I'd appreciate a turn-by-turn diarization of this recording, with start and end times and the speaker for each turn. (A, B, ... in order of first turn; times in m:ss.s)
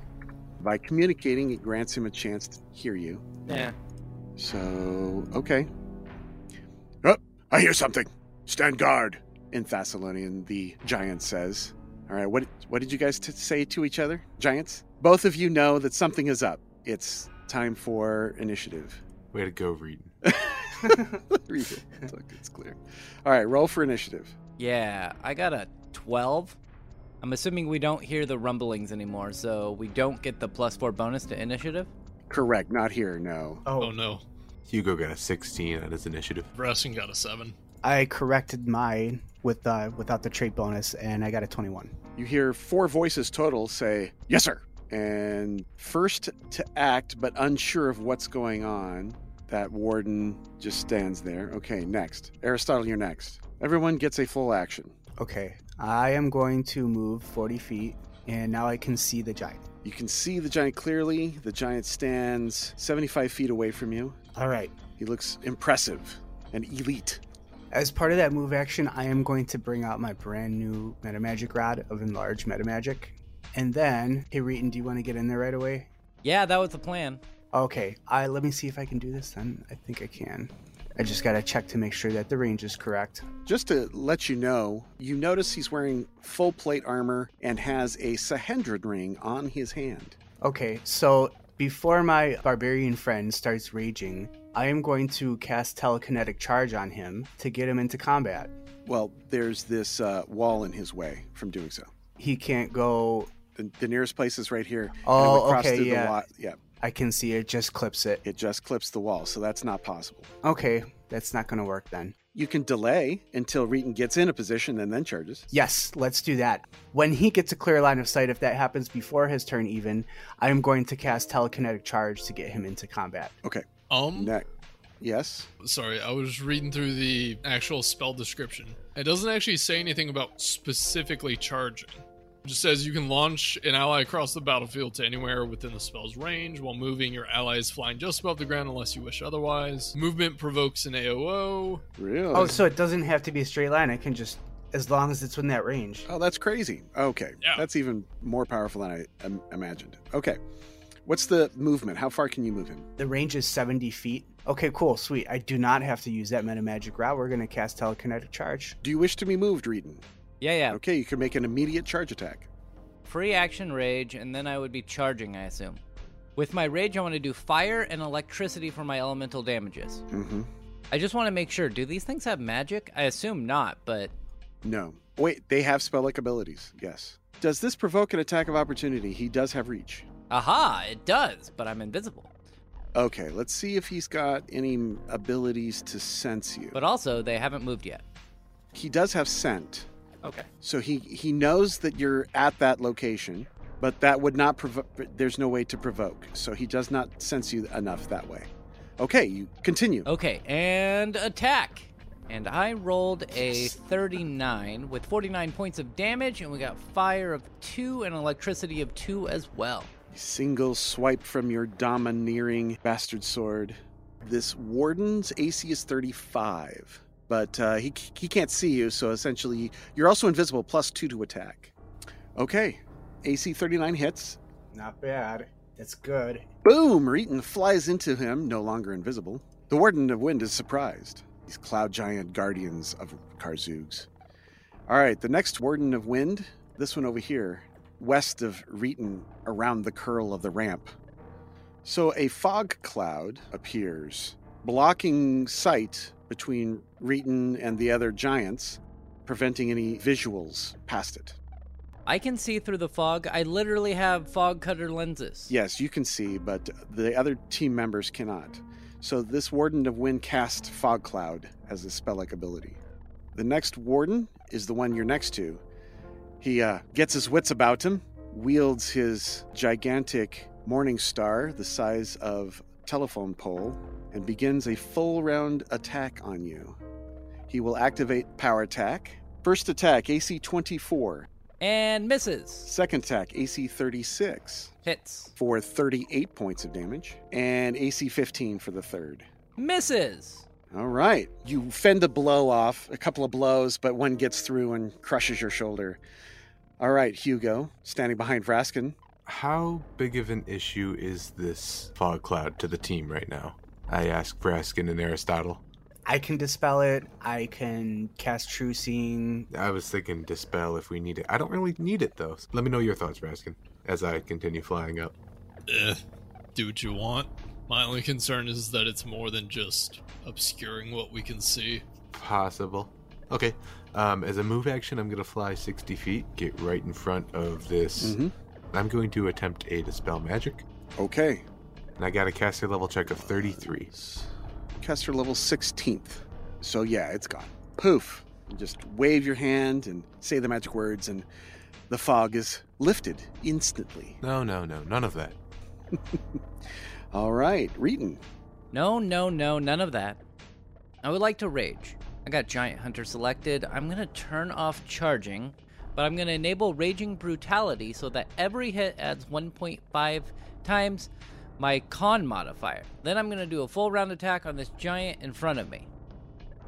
0:00.6-0:03.4 A
0:03.5-0:03.7 B
0:04.4-0:05.7 A
0:07.0-0:19.0 A
0:19.3-0:20.1 C
0:20.2-0:24.3 A
0:20.8-0:21.2 D
0:24.6-0:26.6 B
0:27.2-0:31.9 B
0:32.3-0:33.6 A
0:33.7-0:34.0 D
0:33.8-0:34.2 E
0:34.7-0:36.5 C
0:36.6-0:37.6 E
0:37.8-0:42.0 D
0:42.2-0:55.0 A
0:55.2-0:59.6 D
0:59.8-1:04.2 A
1:04.4-1:04.7 D
1:05.0-1:07.2 A
1:07.7-1:15.9 D
1:16.2-1:17.2 B
1:17.5-1:23.3 D
1:23.5-1:30.2 A
1:30.4-1:38.5 D
1:38.8-1:41.9 A
1:42.2-1:43.4 D
1:43.6-1:46.6 A
1:45.0-1:46.2 D
1:46.8-1:48.2 D
1:48.2-1:50.3 A
1:50.4-1:52.2 D
1:52.3-1:55.5 A
1:55.5-2:03.4 D
2:03.4-2:04.5 A
2:03.9-2:04.4 E
2:05.0-2:05.5 A
2:05.6-2:21.8 E
2:22.0-2:22.6 A
2:22.3-2:26.1 D
2:26.1-2:30.4 A
2:31.0-2:32.9 A
2:33.0-2:38.8 D
2:38.8-2:40.0 A
2:40.4-2:40.8 B
2:40.7-2:42.5 A
2:43.0-2:45.8 B
2:46.4-2:50.0 B
2:50.1-2:50.5 A
2:50.9-2:54.1 B
2:54.6-3:00.1 A
3:00.3-3:02.3 B
3:02.9-3:06.8 A
3:06.7-3:08.0 B
3:08.7-3:09.9 A
3:10.2-3:10.5 B
3:10.6-3:20.1 A
3:20.1-3:29.9 B
3:30.1-3:41.7 A
3:42.4-3:44.4 A
3:44.7-3:46.5 D
3:46.6-3:54.1 A
3:54.9-4:00.9 A
4:01.8-4:11.4 A
4:12.1-4:15.5 B
4:15.5-4:22.8 A
4:23.3-4:25.6 A
4:26.4-4:36.8 A
4:37.5-4:41.3 A
4:41.6-4:42.7 B
4:42.7-4:44.7 A
4:44.8-4:45.3 B
4:45.4-4:49.3 A
4:49.6-4:50.5 B
4:50.7-4:56.0 A
4:56.8-4:59.0 A
4:59.3-5:05.6 C
5:06.1-5:09.5 D
5:09.5-5:15.2 C
5:15.7-5:16.0 E
5:16.6-5:21.8 E
5:22.1-5:28.2 C
5:28.0-5:28.3 A
5:28.7-5:30.6 C
5:31.0-5:31.4 A
5:32.0-5:33.9 C
5:33.1-5:34.3 A
5:34.8-5:41.3 A
5:41.9-5:44.2 A
5:44.2-5:45.4 C
5:47.1-5:48.2 A
5:48.7-5:50.2 B
5:51.0-6:05.9 B